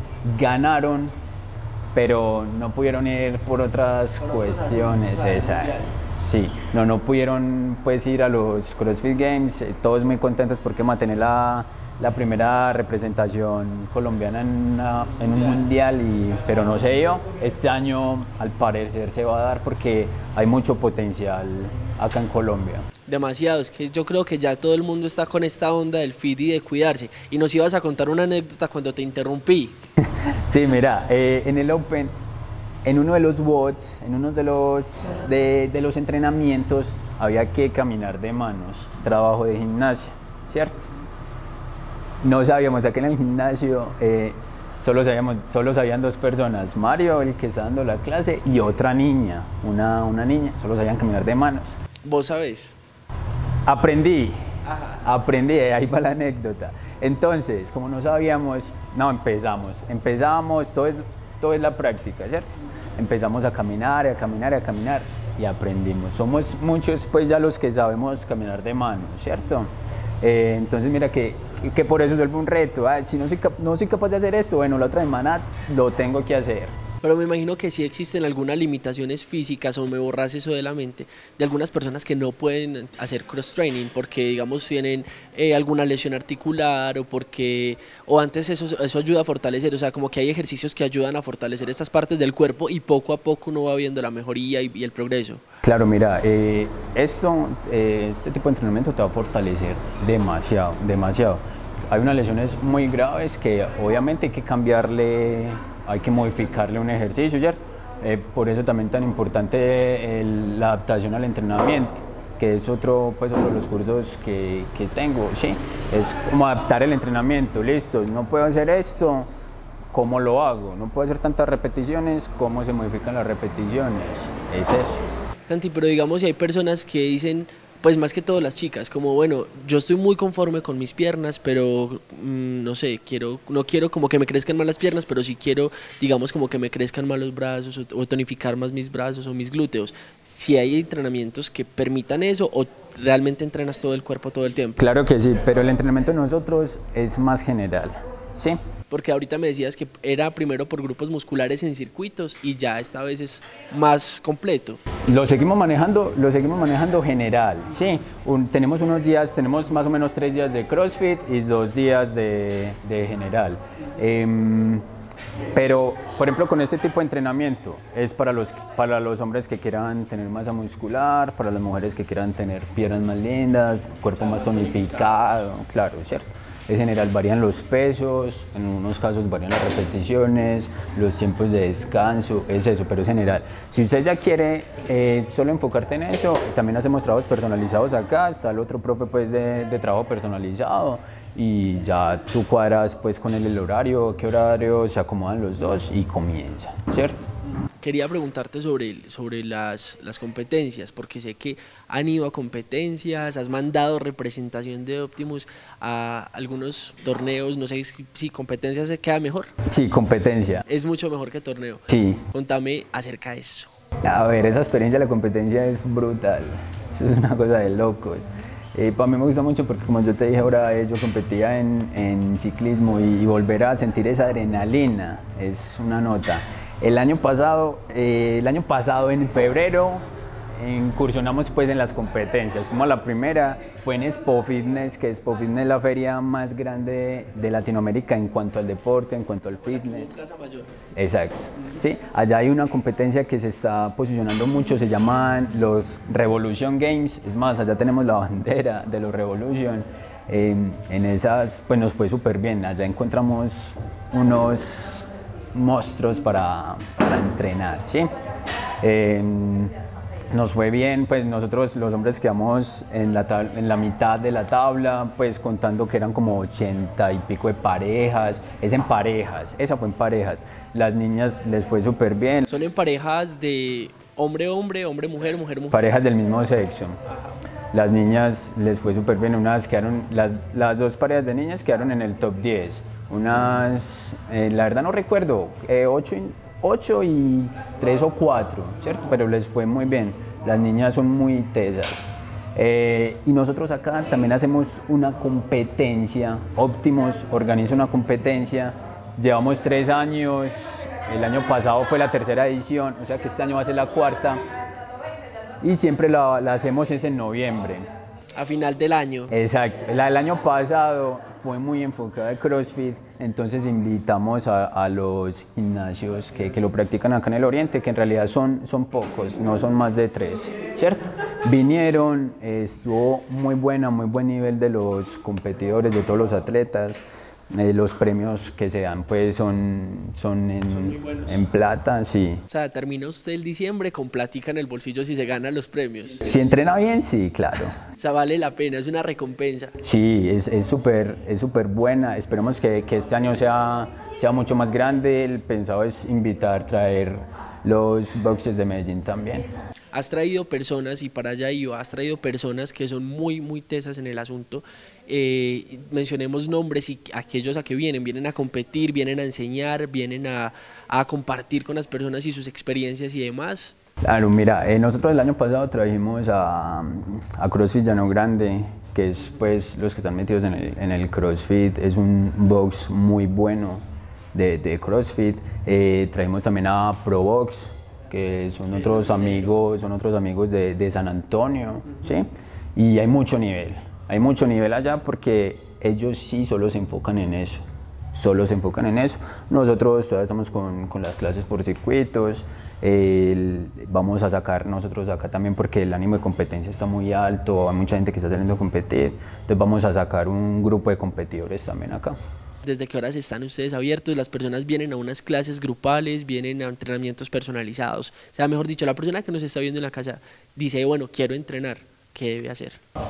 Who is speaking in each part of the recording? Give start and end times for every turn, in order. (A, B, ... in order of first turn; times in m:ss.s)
0:00.2-0:01.2 A
0:01.9-0:22.9 A
0:04.2-0:05.9 B
0:23.1-0:29.8 B
0:30.0-0:32.2 A
0:32.8-0:40.8 A
0:42.2-0:51.8 A
0:52.0-0:52.8 B
0:53.7-0:54.4 A
0:54.7-0:55.0 B
0:55.0-1:16.8 A
1:17.0-1:35.4 B
1:35.6-1:59.3 A
1:59.9-2:05.0 A
2:05.5-2:24.8 B
2:24.8-2:28.6 A
2:28.9-2:34.8 B
2:35.1-2:44.9 A
2:45.5-3:17.2 A
3:17.8-3:29.5 B
3:29.7-3:30.6 A
3:30.7-3:33.7 B
3:31.9-3:32.2 A
3:34.0-4:00.2 A
3:59.6-4:00.7 B
4:01.0-4:18.1 A
4:18.8-4:19.7 A
4:20.3-4:32.5 A
4:32.5-4:35.8 B
4:35.7-4:37.0 A
4:37.7-5:04.4 A
5:05.6-5:07.9 A
5:08.4-5:09.3 B
5:09.3-5:32.4 A
5:30.8-5:31.3 B
5:32.5-5:36.2 B
5:36.2-5:37.8 A
5:38.0-5:39.7 B
5:39.8-5:49.5 A
5:49.9-6:03.7 B
6:04.0-6:42.2 A
6:18.8-6:19.5 B
6:42.6-6:52.8 B